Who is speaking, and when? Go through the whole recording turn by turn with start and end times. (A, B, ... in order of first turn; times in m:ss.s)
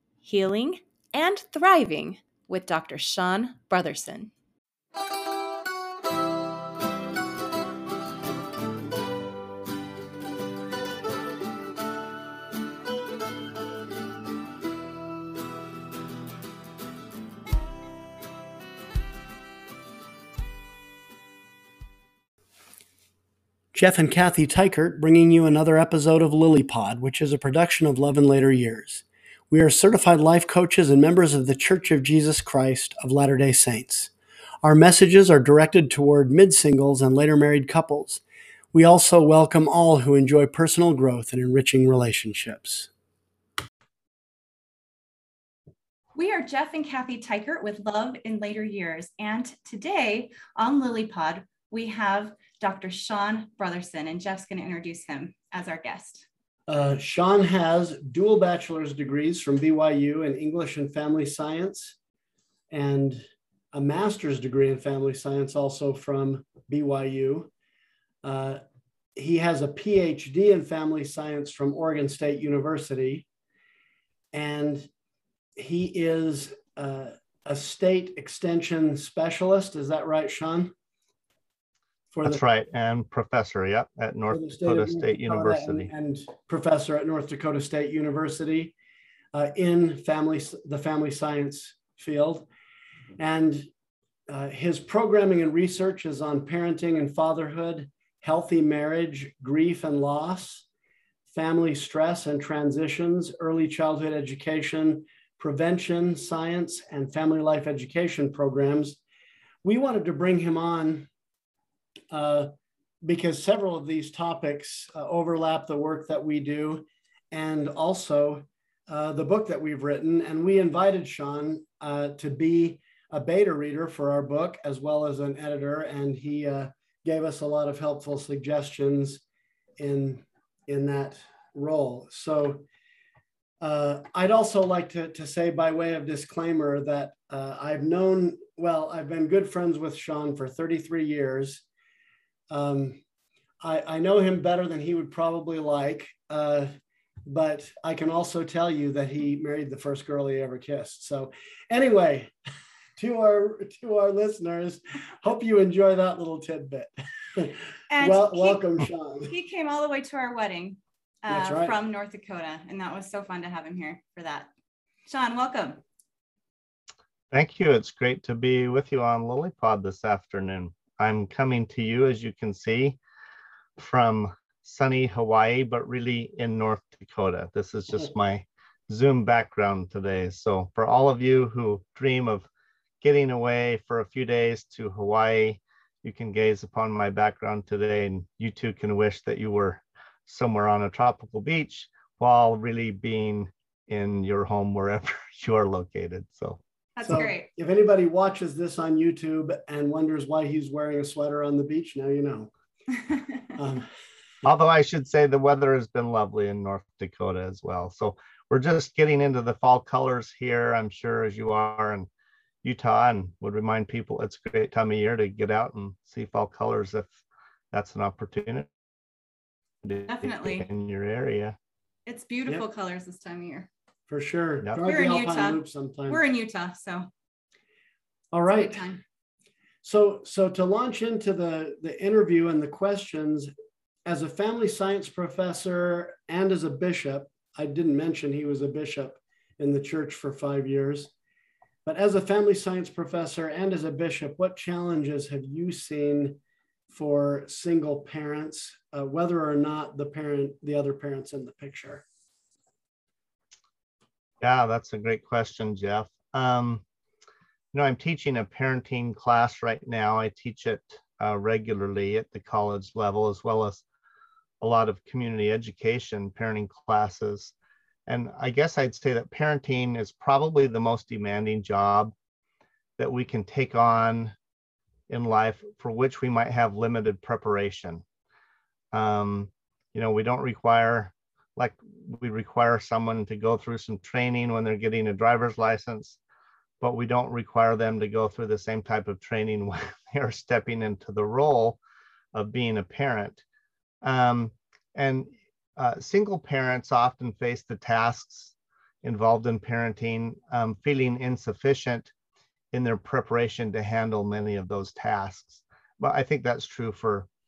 0:00.2-0:04.3 A
0:23.7-0:34.1 B
0:34.6-0:38.2 B
0:38.7-0:42.9 B
0:46.1-0:56.2 A
0:56.7-1:02.0 B
1:02.7-1:07.5 B
1:08.2-1:08.6 B
1:09.2-1:13.2 B
1:14.3-1:14.9 B
1:15.6-1:20.7 B
1:22.1-1:22.4 B
1:22.2-1:25.9 C
1:24.3-1:28.7 B
1:29.3-1:32.5 B
1:33.2-1:33.7 B
1:34.3-1:40.6 B
1:41.3-1:49.0 B
1:49.6-1:51.1 B
1:52.1-1:52.5 B
1:53.0-2:09.2 B
2:09.8-2:12.6 B
2:13.6-2:21.6 B
2:22.5-2:23.0 B
2:23.6-2:26.7 B
2:27.2-2:32.3 B
2:33.0-2:39.3 B
2:37.9-2:38.6 A
2:39.2-2:44.5 A
2:41.3-2:41.7 B
2:45.1-2:45.8 A
2:47.3-2:53.0 C
2:53.8-3:02.5 C
3:03.0-3:16.6 C
3:17.0-3:17.5 A
3:17.0-3:22.5 B
3:23.6-3:23.9 B
3:24.4-3:32.1 C
3:32.6-3:37.1 C
3:37.7-3:38.7 C
3:39.8-3:41.6 C
3:40.1-3:40.7 A
3:42.1-3:43.7 A
3:44.1-3:46.2 B
3:44.8-3:47.1 A
3:48.3-3:49.0 B
3:48.5-3:49.0 A
3:49.8-3:53.5 B
3:54.0-4:01.1 B
4:01.8-4:06.4 B
4:06.9-4:12.0 B
4:14.4-4:16.8 C
4:17.7-4:23.8 C
4:24.6-4:27.5 C
4:28.1-4:32.1 C
4:33.0-4:34.3 C
4:35.1-4:38.0 C
4:38.9-4:46.2 C
4:46.8-4:51.8 C
4:52.3-4:53.4 C
4:54.0-5:02.1 C
5:02.7-5:07.3 C